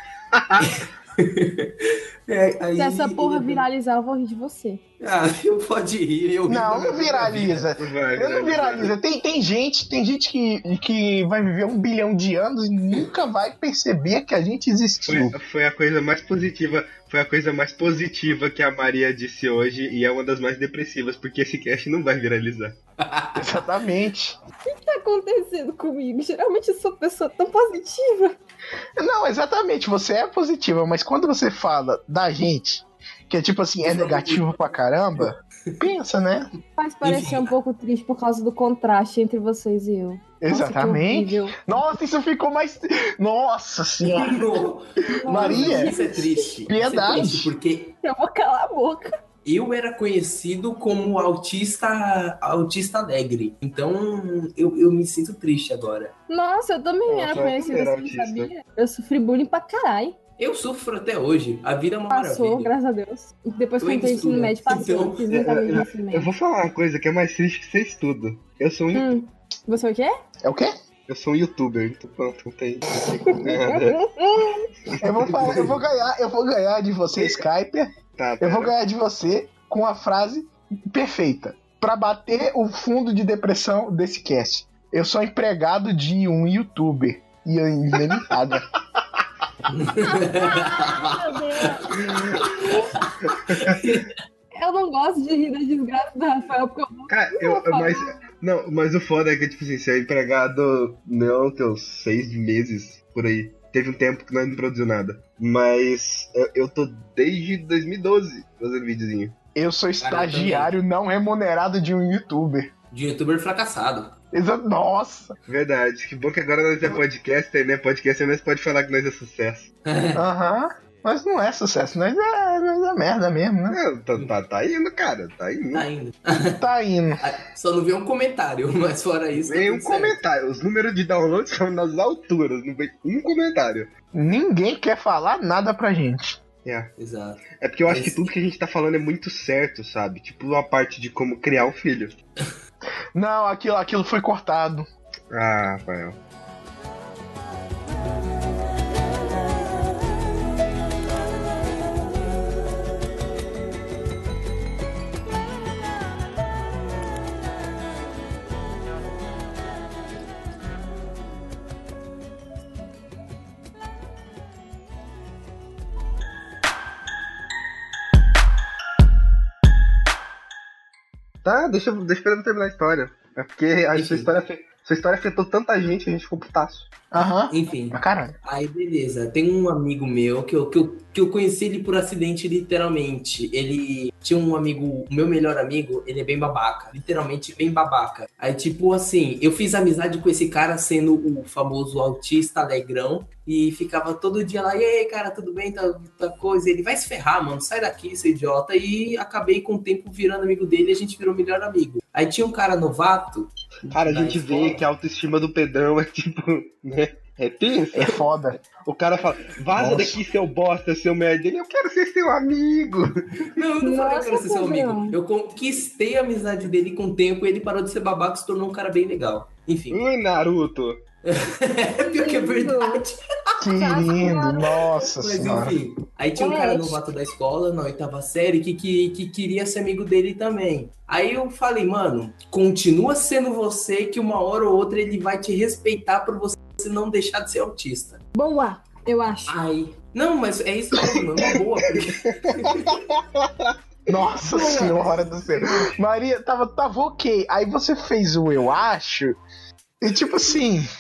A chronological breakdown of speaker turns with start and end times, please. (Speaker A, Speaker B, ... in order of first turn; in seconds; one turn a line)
Speaker A: 0.3-0.7
Speaker B: 0.6-3.6
Speaker C: 2.8-4.8
Speaker B: 5.0-7.6
Speaker D: 6.5-15.4
Speaker A: 7.2-8.9
Speaker A: 15.1-22.8
Speaker B: 23.1-23.4
Speaker D: 23.4-24.4
Speaker C: 24.6-28.4
Speaker D: 29.0-36.5
Speaker B: 33.9-34.5
Speaker C: 36.8-41.6
Speaker B: 37.0-37.5
Speaker D: 40.4-46.0
Speaker B: 44.0-47.9
Speaker C: 45.1-46.3
Speaker D: 46.7-47.5
Speaker C: 48.0-49.1
Speaker B: 49.5-56.1
Speaker C: 56.3-60.2
Speaker A: 57.1-58.5
Speaker B: 60.4-62.7
Speaker C: 62.1-66.3
Speaker B: 63.8-65.2
Speaker A: 65.3-69.1
Speaker C: 68.9-70.1
Speaker D: 70.4-70.7
Speaker A: 71.1-74.0
Speaker C: 72.9-74.7
Speaker A: 74.9-75.8
Speaker D: 75.0-88.7
Speaker A: 77.2-77.4
Speaker A: 78.2-78.7
Speaker B: 89.7-91.3
Speaker C: 90.2-92.9
Speaker B: 93.3-94.1
Speaker C: 94.5-98.1
Speaker A: 97.1-109.4
Speaker D: 109.5-112.7
Speaker B: 110.0-110.7
Speaker B: 112.9-114.2
Speaker D: 114.3-115.3
Speaker A: 115.5-119.7
Speaker B: 119.9-120.2
Speaker D: 120.2-123.8
Speaker A: 123.7-125.9
Speaker B: 125.7-126.6
Speaker D: 126.5-127.2
Speaker B: 127.2-130.2
Speaker A: 129.3-133.9
Speaker D: 134.1-136.4
Speaker A: 136.6-136.9
Speaker B: 137.0-138.3
Speaker A: 137.6-142.2
Speaker D: 143.2-144.9
Speaker A: 145.3-146.2
Speaker A: 171.4-176.9
Speaker B: 173.9-174.3
Speaker D: 177.1-178.4
Speaker B: 177.5-204.8
Speaker A: 203.9-213.1
Speaker D: 207.9-208.6
Speaker D: 209.8-210.2
Speaker B: 213.6-220.0
Speaker C: 213.8-215.2
Speaker A: 219.9-221.0
Speaker B: 221.2-223.2
Speaker C: 222.0-223.0
Speaker D: 223.6-225.8
Speaker C: 223.7-225.1
Speaker B: 225.2-238.2
Speaker C: 226.4-227.0
Speaker C: 238.3-239.5
Speaker B: 239.5-242.9
Speaker A: 242.2-243.7
Speaker D: 244.1-249.4
Speaker A: 244.6-244.9
Speaker D: 250.0-250.9